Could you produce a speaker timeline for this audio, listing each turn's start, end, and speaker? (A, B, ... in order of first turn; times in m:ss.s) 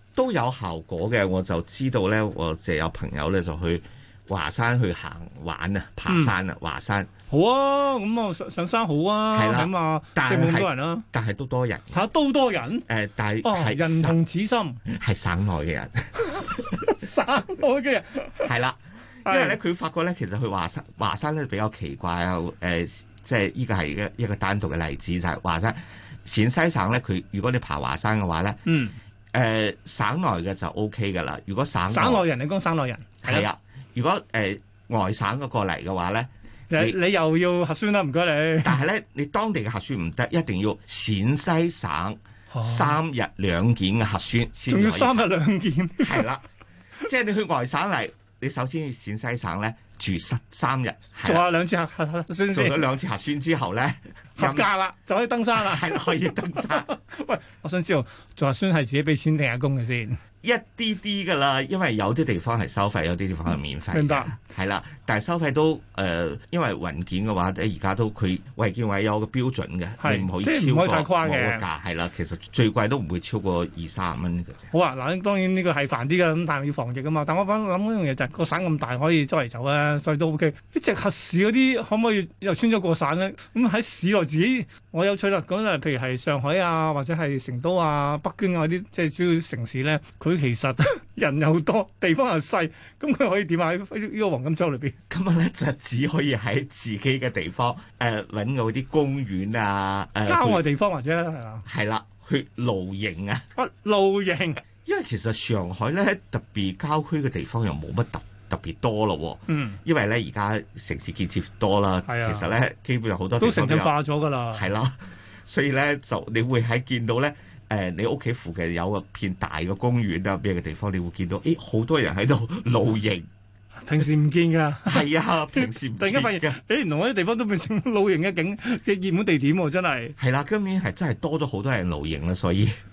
0:00.1-0:07.1 A
0:06.1-0:06.3 B
0:07.3-0:11.0 B
0:09.3-0:12.0 A
0:11.9-0:12.9 B
0:12.9-0:14.2 A
0:13.4-0:14.8 B
0:14.9-0:16.6 A
0:16.3-0:18.5 B
0:18.4-0:28.6 A
0:19.2-0:19.6 B
0:28.6-0:29.0 B
0:29.3-0:32.2 A
0:31.9-0:33.5 B
0:33.2-0:37.0 A
0:36.7-0:38.8 B
0:38.6-0:45.3 A
0:42.5-0:43.0 B
0:44.7-0:46.3 B
0:46.0-0:46.4 A
0:47.0-0:51.5 A
0:51.2-0:52.8 B
0:52.5-0:54.8 A
0:54.4-0:56.0 B
0:55.5-0:56.9 A
0:56.5-1:00.2 B
1:00.4-1:14.7 A
1:03.9-1:04.3 B
1:10.0-1:11.6 B
1:14.7-1:35.0 B
1:35.1-1:40.6 A
1:40.2-1:41.6 B
1:41.6-1:43.4 A
1:43.5-1:44.6 B
1:44.8-1:54.0 A
1:49.5-1:49.8 B
1:52.0-1:52.5 B
1:53.4-1:54.7 B
1:54.5-2:03.2 A
2:03.8-2:10.2 B
2:04.8-2:06.6 A
2:10.2-2:12.8 A